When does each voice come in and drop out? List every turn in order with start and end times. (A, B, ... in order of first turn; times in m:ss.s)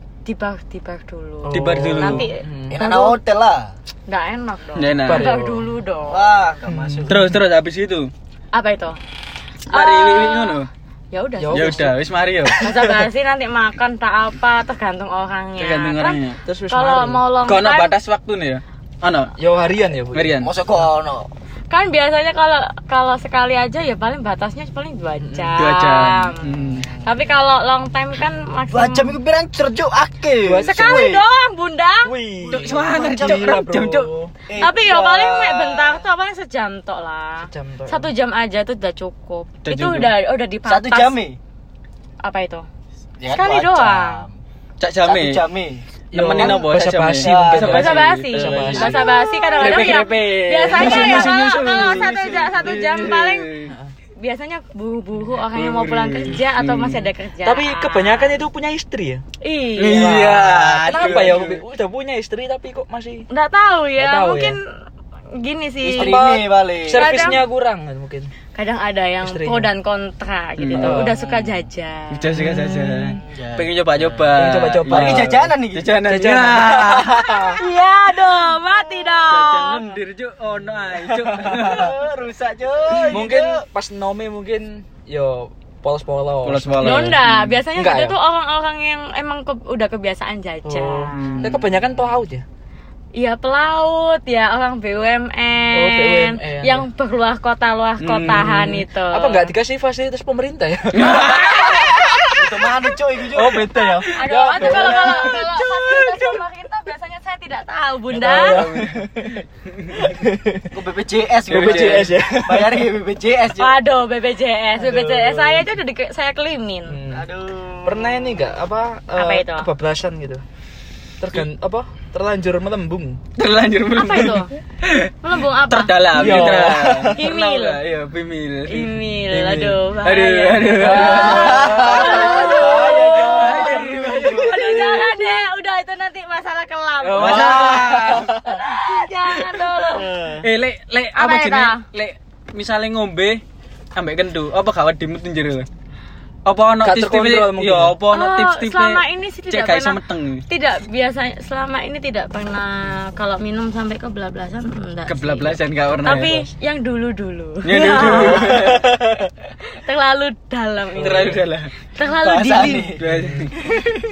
0:00.2-0:03.2 A
0:01.4-0:02.8 B
0:01.5-0:02.3 C
0:02.7-0:03.7 D
0:04.1-0:06.3 A
0:04.8-0:05.4 C
0:05.0-0:05.7 B
0:06.1-0:07.2 D
0:06.6-0:07.3 B
0:07.1-0:08.1 C
0:08.5-0:09.0 A
0:09.7-0:11.9 A
0:09.7-0:10.7 C
0:11.4-0:12.0 B
0:11.5-0:12.6 C
0:12.6-0:17.9 A
0:12.6-0:13.0 B
0:15.6-0:16.4 C
0:16.4-0:17.2 B
0:17.4-0:19.3 C
0:19.4-0:20.8 B
0:20.1-0:20.5 C
0:20.4-0:21.3 D
0:21.7-0:26.5 A
0:25.2-0:25.5 B
0:25.5-0:26.9 C
0:27.0-0:29.1 A
0:28.7-0:31.2 D
0:30.4-0:31.1 B
0:30.7-0:32.1 A
0:32.0-0:34.3 B
0:32.4-0:34.1 C
0:32.5-0:33.6 D
0:34.5-0:36.0 D
0:34.6-0:41.2 A
0:37.4-0:38.1 B
0:39.6-0:40.1 C
0:40.6-0:41.4 D
0:42.2-0:42.6 A
0:43.2-0:44.3 D
0:43.3-0:44.2 A
0:44.8-0:45.4 C
0:45.0-0:48.0 D
0:46.1-0:49.1 B
0:46.1-0:53.7 C
0:47.7-0:53.5 A
0:48.6-0:48.9 D
0:50.8-0:52.1 B
0:51.2-0:52.4 D
0:54.2-0:58.4 A
0:55.5-0:57.1 C
0:57.4-0:59.2 B
0:59.4-1:00.2 A
0:59.8-1:01.6 C
0:59.9-1:03.3 B
1:00.9-1:01.4 D
1:03.3-1:04.6 A
1:04.0-1:04.6 B
1:05.3-1:06.2 A
1:05.8-1:07.2 D
1:06.0-1:08.3 B
1:06.9-1:07.4 A
1:08.5-1:12.3 A
1:09.2-1:09.7 B
1:10.6-1:11.0 C
1:10.8-1:11.2 B
1:11.1-1:11.6 D
1:12.1-1:17.2 C
1:12.4-1:13.2 B
1:13.1-1:13.7 D
1:14.3-1:15.3 B
1:14.9-1:15.9 D
1:16.0-1:17.4 B
1:16.7-1:20.0 D
1:17.6-1:19.8 A
1:19.3-1:21.9 C
1:21.0-1:21.8 B
1:21.4-1:23.6 D
1:22.9-1:23.2 C
1:23.1-1:28.2 B
1:26.4-1:27.6 C
1:26.8-1:31.2 A
1:30.6-1:32.4 B
1:31.1-1:31.6 C
1:31.4-1:32.0 D
1:33.1-1:39.5 A
1:35.7-1:36.9 B
1:38.0-1:42.3 B
1:40.9-1:41.6 C
1:41.2-1:42.1 A
1:42.4-1:43.9 D
1:43.3-1:46.4 B
1:44.1-1:48.6 A
1:48.1-1:50.7 B
1:48.2-1:49.1 C
1:49.7-1:50.1 C
1:50.7-1:53.8 D
1:51.5-1:52.8 B
1:51.5-1:52.1 C
1:53.6-1:57.0 A
1:54.7-1:55.7 B
1:56.9-1:57.2 B
1:57.1-1:58.5 D
1:57.8-2:00.4 B
1:59.1-1:59.7 A
2:01.2-2:03.2 B
2:03.4-2:05.1 C
2:03.9-2:04.5 A
2:05.2-2:06.6 A
2:05.6-2:14.9 C
2:06.1-2:07.2 B
2:07.1-2:07.8 A
2:08.7-2:17.7 A
2:10.8-2:13.0 B
2:10.9-2:14.5 D
2:14.2-2:14.6 B
2:17.1-2:18.5 B
2:17.1-2:19.1 C
2:17.2-2:17.8 D
2:18.4-2:20.1 A
2:20.0-2:20.4 B
2:20.4-2:23.4 C
2:21.1-2:21.8 A
2:23.9-2:25.7 C
2:26.4-2:30.4 C
2:26.8-2:28.0 B
2:28.1-2:39.0 A
2:35.1-2:36.5 C
2:37.6-2:38.9 C
2:38.3-2:38.7 B
2:39.8-2:42.9 A
2:41.0-2:41.7 C
2:41.0-2:41.4 B
2:42.1-2:43.1 D
2:43.0-2:43.5 C
2:43.1-2:43.4 B
2:43.7-2:44.0 D